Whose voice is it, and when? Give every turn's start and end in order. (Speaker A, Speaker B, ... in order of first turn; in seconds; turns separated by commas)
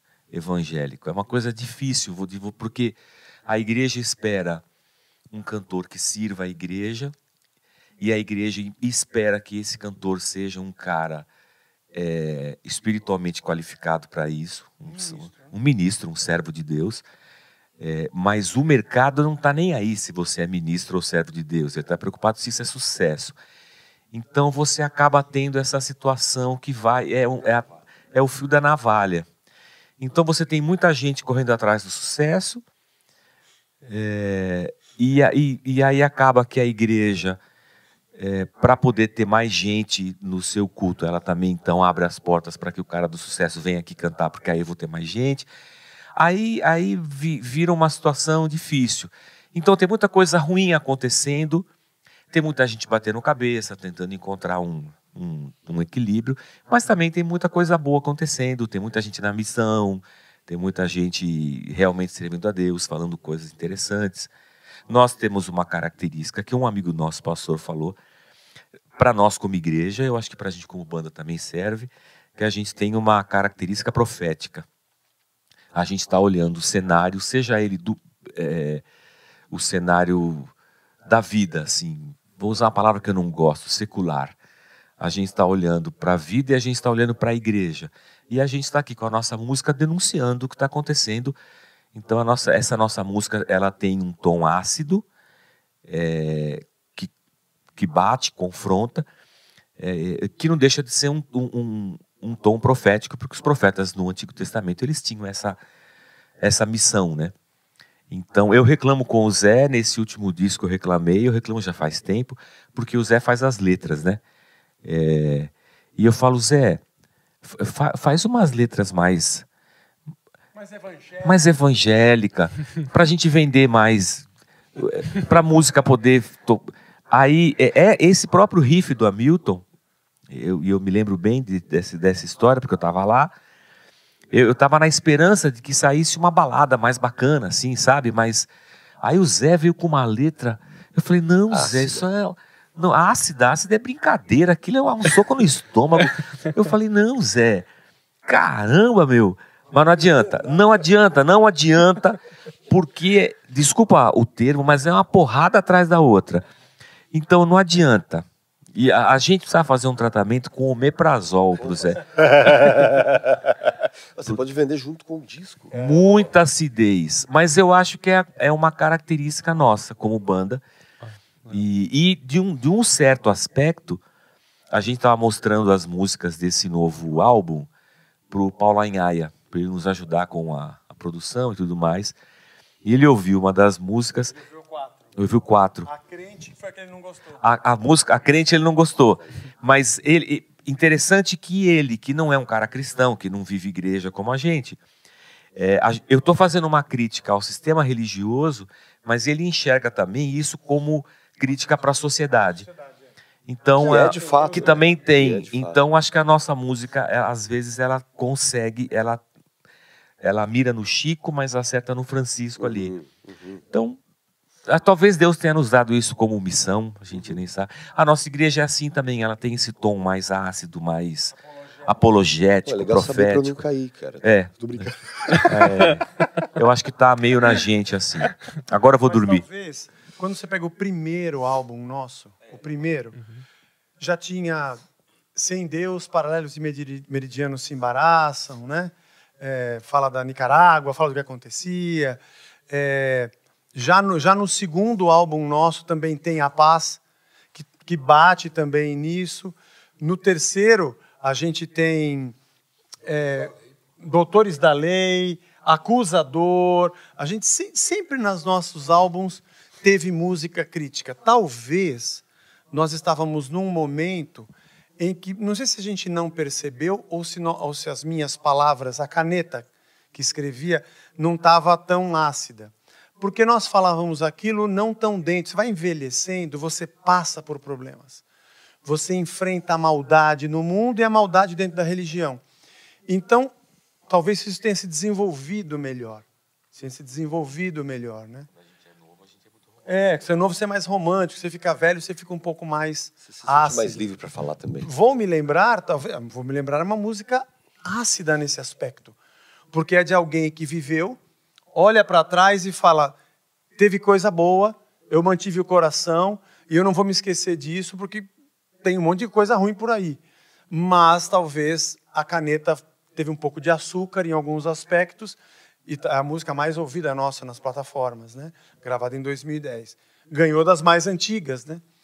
Speaker A: 0.3-4.6, Speaker A: 5.3-7.1, Speaker A: 8.0-11.3, Speaker A: 11.9-17.0, Speaker A: 17.8-23.3, Speaker A: 24.1-29.3, Speaker A: 30.0-32.6, Speaker A: 33.9-37.4, Speaker A: 38.2-45.5, Speaker A: 46.2-51.7, Speaker A: 52.3-64.3, Speaker A: 64.9-68.0, Speaker A: 69.0-74.7, Speaker A: 75.7-78.8, Speaker A: 79.5-80.5, Speaker A: 81.1-84.3, Speaker A: 85.0-91.3, Speaker A: 91.9-95.0, Speaker A: 95.9-97.1, Speaker A: 97.8-99.0, Speaker A: 99.8-105.6, Speaker A: 106.4-107.3, Speaker A: 108.1-114.2, Speaker A: 114.8-116.8, Speaker A: 117.4-119.5, Speaker B: 120.6-121.2, Speaker A: 121.2-129.6, Speaker A: 130.3-133.3, Speaker A: 134.3-138.5, Speaker A: 139.0-147.7, Speaker C: 141.5-142.1, Speaker A: 148.2-156.4, Speaker A: 157.1-162.8, Speaker C: 162.1-163.5, Speaker C: 164.2-165.9, Speaker A: 165.7-170.6, Speaker A: 171.5-174.0, Speaker A: 174.7-177.7, Speaker A: 178.3-182.1, Speaker A: 182.8-184.4, Speaker A: 185.2-185.9, Speaker B: 185.9-187.4, Speaker A: 187.4-194.8, Speaker A: 195.6-202.7, Speaker A: 203.5-209.2, Speaker C: 203.8-205.8, Speaker B: 203.8-204.5, Speaker A: 210.2-212.9, Speaker C: 212.6-213.6, Speaker A: 213.7-214.0, Speaker A: 214.7-223.6, Speaker C: 222.7-224.9, Speaker A: 224.2-229.4, Speaker C: 225.5-225.8, Speaker B: 229.1-233.2, Speaker B: 234.0-234.8, Speaker B: 235.3-247.0, Speaker B: 247.5-252.4, Speaker B: 253.1-278.2, Speaker B: 278.9-282.4, Speaker B: 283.1-283.5, Speaker B: 284.1-288.5, Speaker B: 289.9-294.0, Speaker C: 293.3-294.9, Speaker B: 294.8-299.1, Speaker B: 299.7-301.2, Speaker B: 301.7-303.2, Speaker B: 303.8-308.3, Speaker B: 308.8-310.2, Speaker B: 310.7-321.8